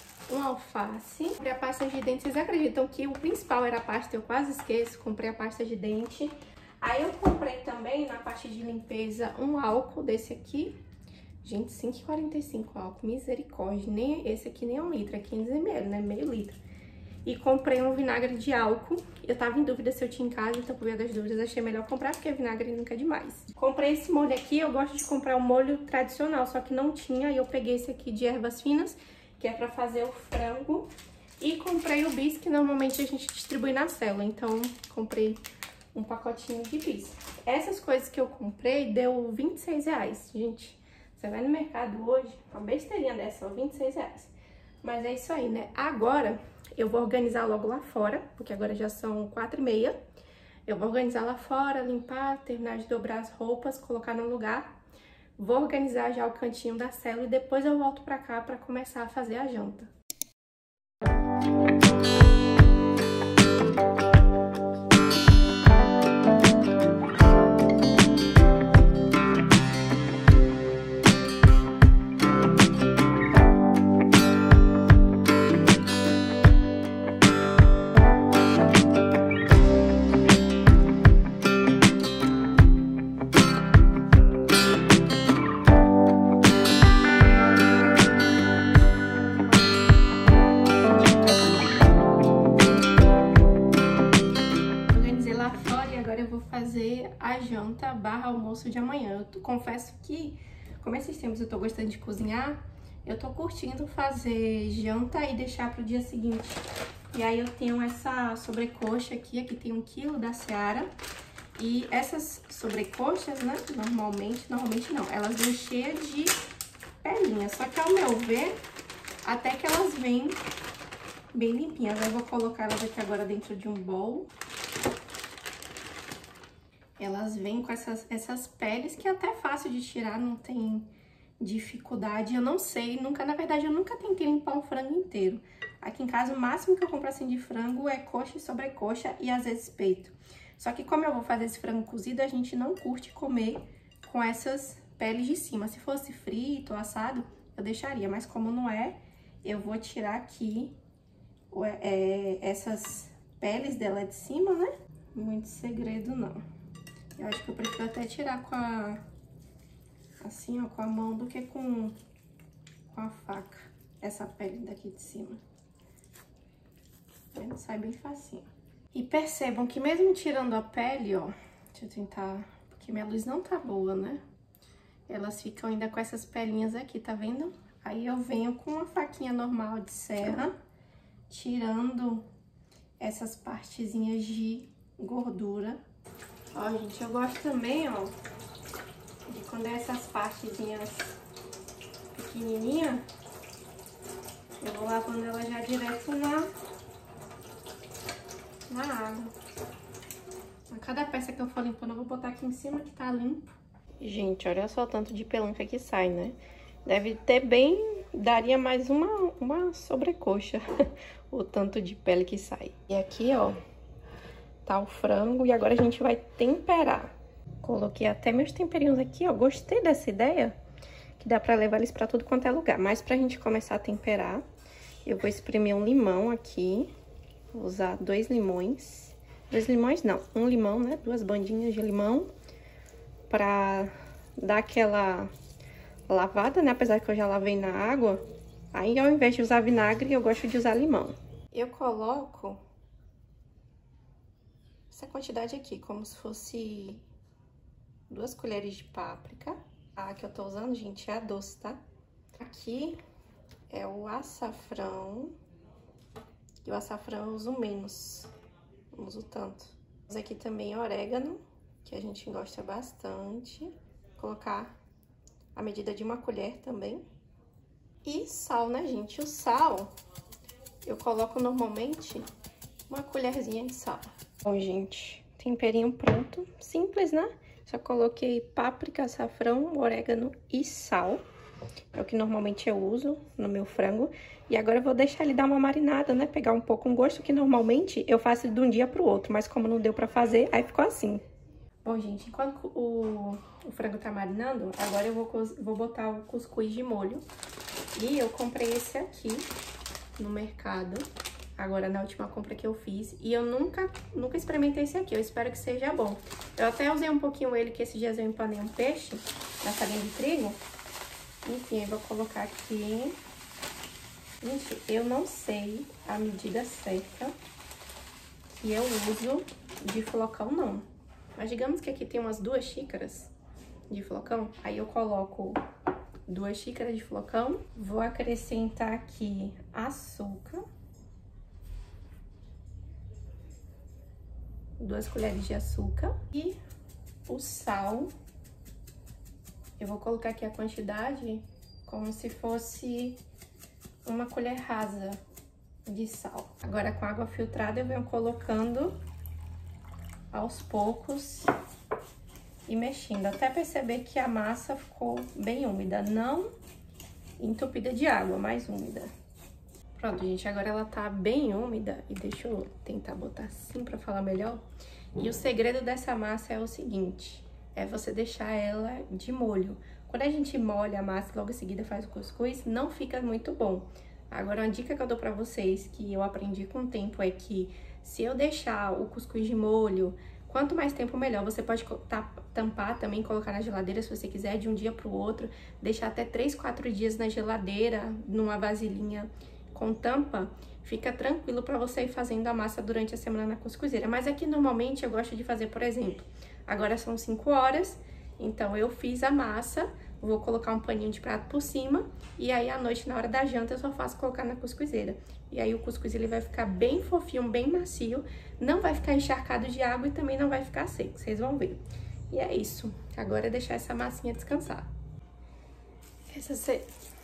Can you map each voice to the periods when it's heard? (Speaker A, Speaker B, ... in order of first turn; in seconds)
Speaker A: 0.3-10.8, 11.4-16.6, 17.2-35.4, 35.9-44.3, 44.8-50.0, 50.6-54.8, 55.4-59.9, 94.9-110.9, 111.5-116.3, 117.0-118.5, 119.2-120.4, 121.3-124.3, 127.0-150.8, 151.5-156.4, 157.2-159.0, 160.2-161.9, 162.9-165.4, 167.3-174.2, 175.1-180.5, 181.3-182.3, 183.0-185.8, 186.5-188.2, 189.3-191.2, 192.1-193.0, 194.6-196.5, 198.7-199.3, 200.7-213.6, 214.6-220.5, 221.2-224.4, 225.0-226.9, 227.5-232.3, 233.3-235.3, 236.1-242.6, 244.9-247.0, 248.1-251.8, 252.4-253.0, 253.7-255.3, 256.6-258.3, 258.9-264.8, 265.5-267.0, 268.0-269.9, 270.8-272.2, 272.9-281.2, 281.9-291.2, 291.8-297.2, 297.9-299.5, 300.2-301.1, 301.6-310.6, 311.4-313.2, 314.4-317.4, 318.6-320.8, 321.4-323.3, 323.9-325.6, 326.3-330.6, 334.8-336.6, 337.3-338.1, 339.8-343.2, 344.0-345.2, 345.9-349.0, 350.3-351.5, 352.7-356.5, 357.4-359.1, 360.0-414.9, 416.3-416.9